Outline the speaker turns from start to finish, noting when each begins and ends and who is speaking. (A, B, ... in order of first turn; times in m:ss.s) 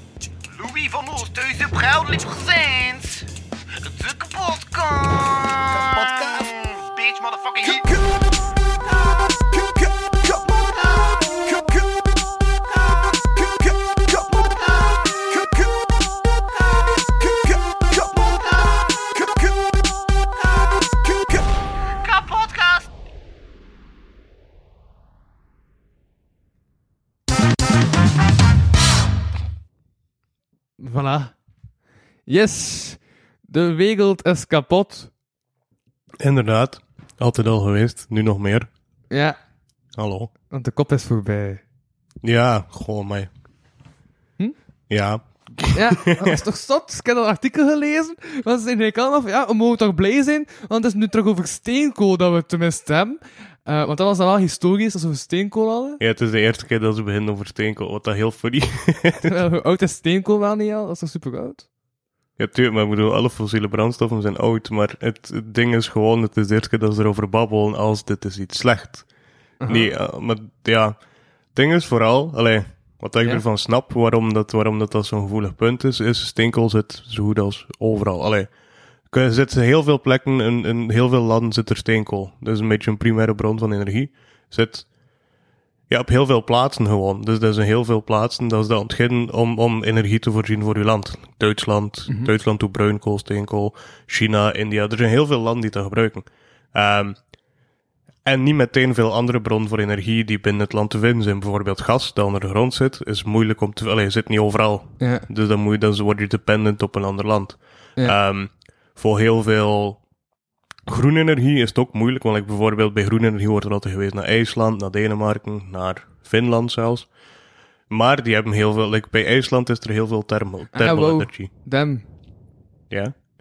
0:00.6-0:03.1 A
0:04.0-0:07.9 A
0:22.2-0:22.8 A
0:30.8-0:31.3 B
0:32.2-0:35.1 B
0:36.2-0:38.7 C
0:39.1-0:39.4 B
0:39.9-0:40.3 C
0:40.5-0:41.6 B
0:42.2-0:43.3 C
0:44.9-0:46.4 C
0:45.7-0:56.0 B
0:56.0-0:59.3 C
0:59.2-1:01.7 B
1:02.4-1:09.0 C
1:09.6-1:09.9 B
1:09.7-1:11.0 C
1:11.5-1:18.5 C
1:19.1-1:24.9 C
1:25.9-1:37.2 C
1:38.2-1:50.0 C
1:45.0-1:45.2 B
1:50.9-1:57.1 C
1:57.9-2:01.5 C
2:00.7-2:02.0 B